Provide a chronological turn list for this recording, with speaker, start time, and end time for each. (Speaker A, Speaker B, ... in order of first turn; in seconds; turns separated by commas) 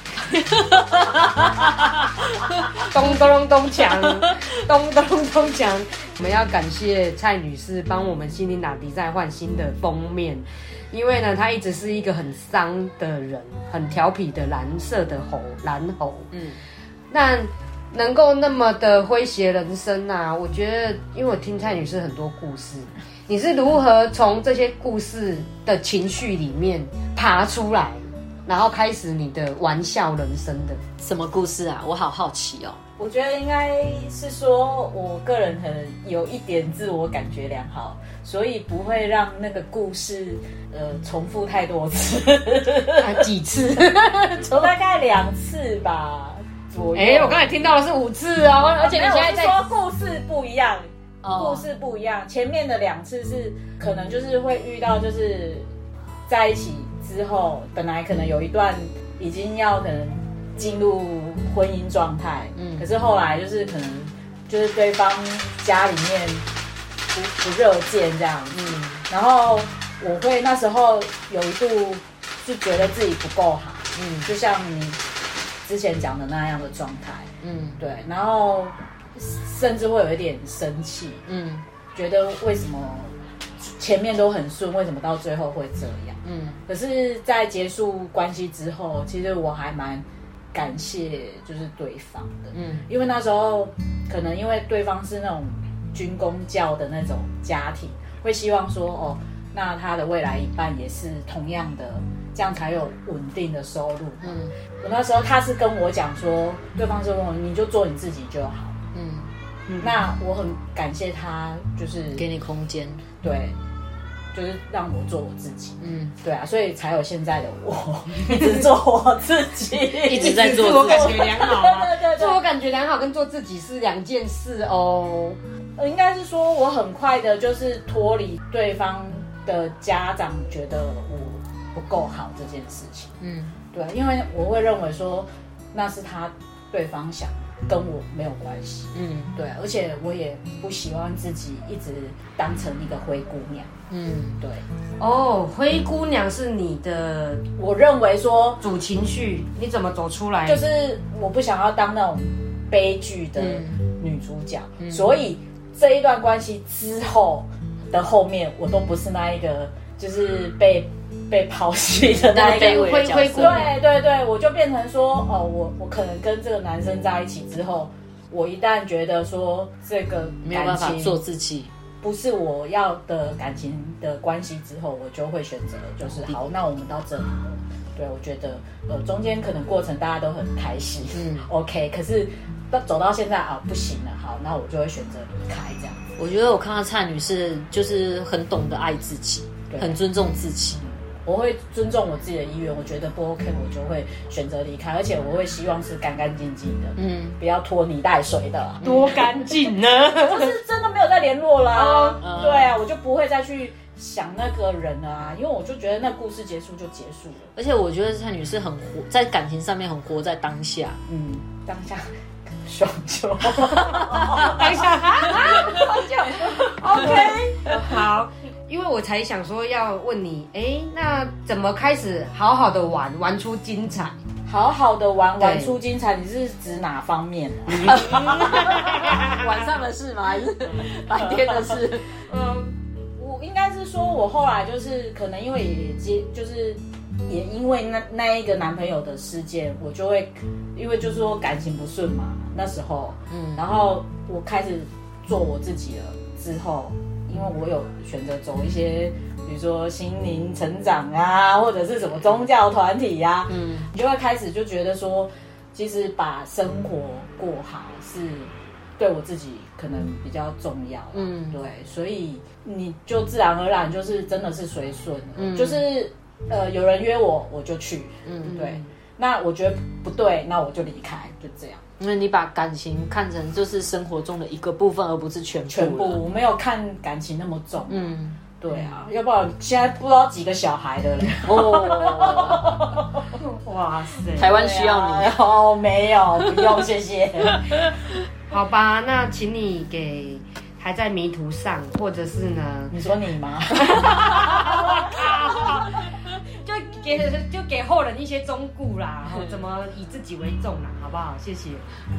Speaker A: 2.8-16.3, Speaker B: 16.3-16.6, Speaker A: 17.1-30.8, Speaker B: 31.0-32.8, Speaker C: 33.0-43.3, Speaker A: 43.0-44.7, Speaker C: 44.5-47.5, Speaker A: 46.9-49.6, Speaker C: 48.8-55.7, Speaker B: 51.2-51.6, Speaker C: 56.3-66.5, Speaker B: 62.5-62.9, Speaker C: 67.1-75.0, Speaker B: 68.5-69.0, Speaker B: 73.9-74.3, Speaker C: 75.6-81.2, Speaker B: 77.4-77.8, Speaker B: 81.3-81.6, Speaker C: 81.9-108.8, Speaker B: 86.2-86.6, Speaker B: 92.5-92.9, Speaker B: 104.2-104.5, Speaker B: 108.9-109.3, Speaker A: 109.7-110.0, Speaker C: 109.8-112.3, Speaker B: 112.1-113.0, Speaker C: 113.2-113.5, Speaker C: 114.3-122.4, Speaker B: 115.8-116.1, Speaker A: 118.3-118.7, Speaker A: 120.0-125.4, Speaker B: 120.1-121.2, Speaker C: 125.8-133.1, Speaker B: 133.2-133.6, Speaker C: 133.7-143.7, Speaker B: 138.9-139.3, Speaker B: 143.9-144.4, Speaker A: 145.0-147.4, Speaker C: 147.6-148.6, Speaker A: 148.6-150.6, Speaker C: 150.4-171.2, Speaker B: 153.4-153.8, Speaker B: 154.8-155.0, Speaker B: 162.2-163.7, Speaker A: 162.5-163.7, Speaker B: 170.4-171.7, Speaker C: 172.0-186.1, Speaker B: 181.1-181.5, Speaker B: 186.2-190.9, Speaker C: 189.7-190.0, Speaker C: 191.2-198.9, Speaker B: 197.0-197.4, Speaker A: 198.8-200.5, Speaker B: 198.8-199.2, Speaker C: 200.3-207.5, Speaker A: 201.7-202.3, Speaker B: 202.2-202.7, Speaker B: 207.5-211.0, Speaker C: 211.1-212.0, Speaker C: 212.6-214.9, Speaker A: 214.1-224.2, Speaker C: 215.5-217.5, Speaker C: 224.4-229.2, Speaker A: 225.4-225.8, Speaker A: 227.7-229.3, Speaker B: 227.7-232.1, Speaker C: 231.0-231.8, Speaker A: 232.3-232.7, Speaker C: 233.2-271.8, Speaker B: 243.3-243.6, Speaker B: 253.5-253.9, Speaker B: 261.1-261.6, Speaker B: 265.4-265.8, Speaker B: 268.2-268.5, Speaker A: 268.4-268.9, Speaker B: 272.0-276.2, Speaker C: 275.7-283.2, Speaker B: 277.9-278.4, Speaker A: 278.7-279.0, Speaker B: 281.4-282.6, Speaker A: 283.4-284.5, Speaker B: 284.4-285.3, Speaker C: 284.5-287.8, Speaker B: 287.6-287.9, Speaker A: 288.5-292.9, Speaker C: 292.9-295.2, Speaker A: 293.8-301.9